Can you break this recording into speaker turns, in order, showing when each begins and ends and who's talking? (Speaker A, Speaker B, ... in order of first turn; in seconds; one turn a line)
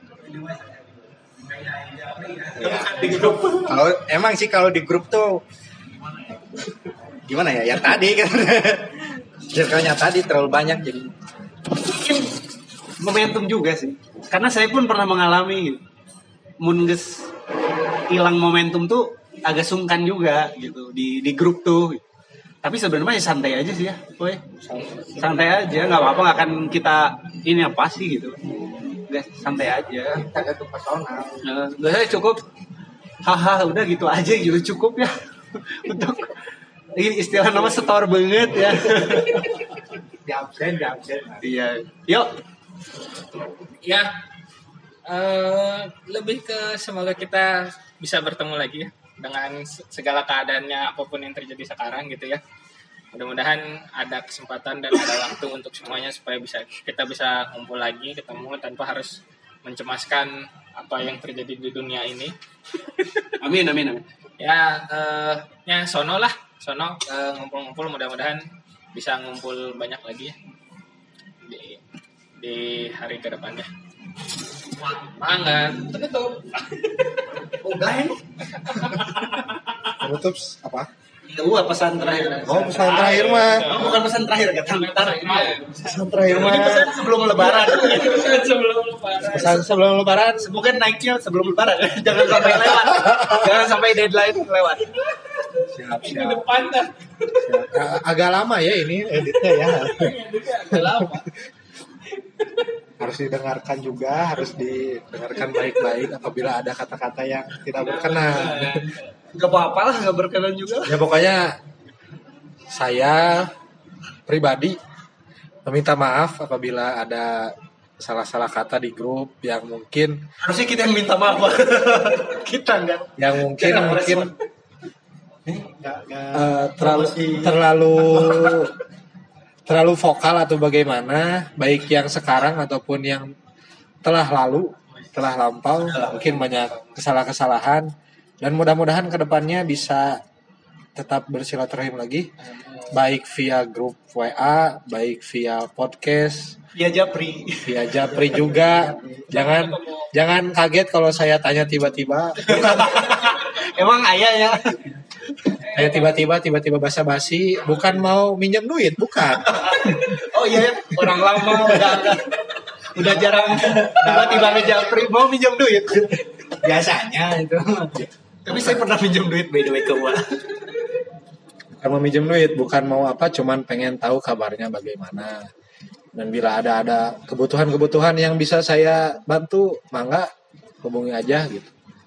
Speaker A: 0.2-3.7
Speaker B: 2.5-5.4
Speaker B: 7.2-11.2
Speaker A: 11.8-12.3
Speaker A: 13.0-15.8
Speaker A: 16.6-17.3
Speaker A: 18.1-22.0
Speaker A: 22.6-24.4
Speaker A: 25.1-28.4
Speaker A: 29.1-30.3
Speaker B: 30.1-31.4
Speaker A: 31.4-32.4
Speaker A: 33.2-36.4
Speaker A: 37.0-39.6
Speaker B: 40.2-41.5
Speaker A: 41.4-42.3
Speaker C: 43.8-44.1
Speaker C: 45.0-52.4
Speaker C: 53.1-62.3
Speaker C: 63.0-63.2
Speaker A: 63.4-64.0
Speaker C: 64.4-70.3
Speaker C: 71.4-71.8
Speaker C: 72.4-73.7
Speaker C: 74.7-77.1
Speaker A: 77.6-78.2
Speaker C: 78.5-79.8
Speaker D: 80.0-80.9
Speaker A: 81.3-85.6
Speaker D: 82.4-83.7
Speaker C: 82.8-84.0
Speaker C: 84.7-86.0
Speaker D: 85.8-86.9
Speaker A: 86.3-88.5
Speaker C: 87.3-89.5
Speaker A: 89.2-89.6
Speaker D: 89.2-90.5
Speaker A: 90.4-94.9
Speaker B: 95.7-96.5
Speaker C: 96.0-96.9
Speaker B: 97.3-97.8
Speaker D: 97.7-100.0
Speaker B: 99.2-100.0
Speaker C: 99.9-101.2
Speaker D: 103.0-108.8
Speaker C: 108.0-108.8
Speaker A: 109.3-111.0
Speaker D: 110.8-111.6
Speaker D: 112.7-113.5
Speaker D: 114.3-114.8
Speaker D: 115.6-120.2
Speaker A: 120.4-124.3
Speaker D: 123.2-124.3
Speaker B: 125.5-128.5
Speaker D: 126.3-128.7
Speaker D: 129.7-133.3
Speaker D: 134.0-137.9
Speaker A: 135.9-136.2
Speaker D: 138.4-140.2
Speaker D: 140.9-142.3
Speaker D: 142.9-146.6
Speaker A: 146.7-147.8
Speaker D: 147.6-153.0
Speaker B: 148.1-149.3
Speaker C: 149.3-150.1
Speaker A: 152.4-155.0
Speaker D: 155.7-159.6
Speaker A: 159.5-162.3
Speaker A: 162.9-166.2
Speaker B: 163.8-164.9
Speaker B: 166.6-168.1
Speaker A: 168.4-170.2
Speaker D: 171.8-175.4
Speaker D: 176.1-180.3
Speaker D: 180.8-181.7